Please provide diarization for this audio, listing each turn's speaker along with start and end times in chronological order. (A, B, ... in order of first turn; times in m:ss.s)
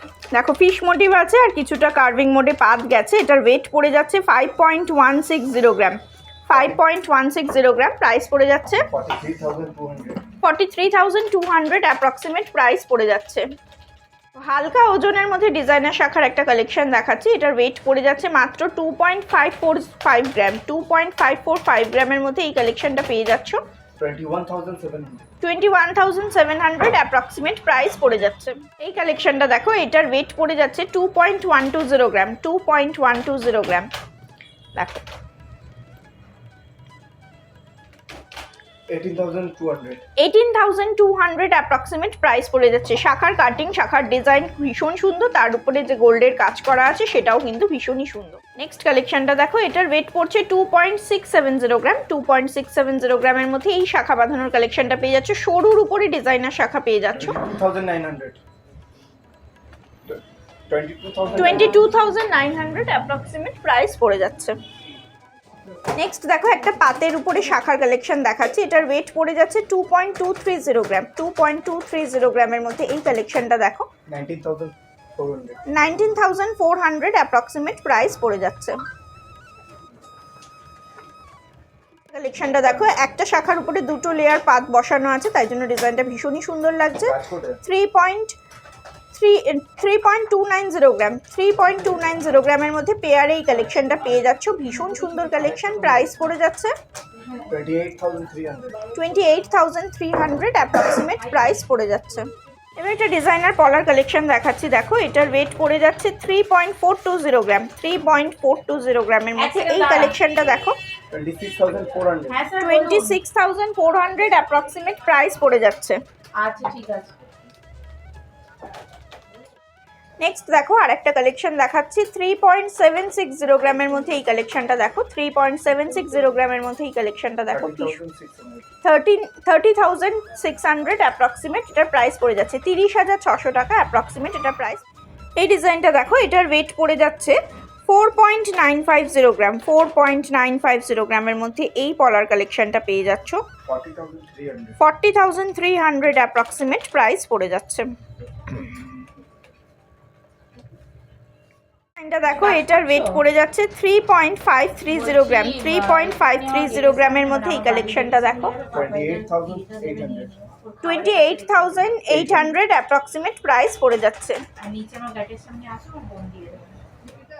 0:00.3-0:06.0 A
0:06.5-0:08.9 A
0:06.5-0:06.8 B
0:08.9-0:10.2 B
0:10.4-0:13.4 A
0:14.4-0:23.6 A
0:24.0-0:25.2 B
0:25.4-0:33.9 A
0:34.7-0:35.0 A
0:38.9-0:40.0 B
0:40.2-0:57.4 A
0:57.1-0:58.4 B
1:00.1-1:01.8 B
1:01.3-1:04.6 A
1:05.9-1:13.9 A
1:14.1-1:15.6 B
1:15.7-1:18.8 A
1:22.1-1:28.4 A
1:27.0-1:27.6 B
1:29.1-1:36.7 A
1:35.4-1:36.1 B
1:37.2-1:37.5 C
1:37.5-1:38.9 B
1:38.9-1:50.8 A
1:41.3-1:41.6 C
1:49.4-1:50.2 C
1:51.1-1:52.4 B
1:52.3-1:53.2 C
1:52.6-1:56.0 A
1:56.4-1:57.2 C
2:00.2-2:08.0 A
2:07.5-2:08.6 B
2:08.8-2:14.8 A
2:15.4-2:23.4 A
2:23.6-2:24.8 B
2:24.8-2:28.9 A
2:32.0-2:38.6 A
2:32.3-2:33.2 C
2:34.9-2:42.0 C
2:38.7-2:40.3 B
2:40.8-2:44.4 A
2:42.1-2:42.5 B
2:44.6-2:46.8 C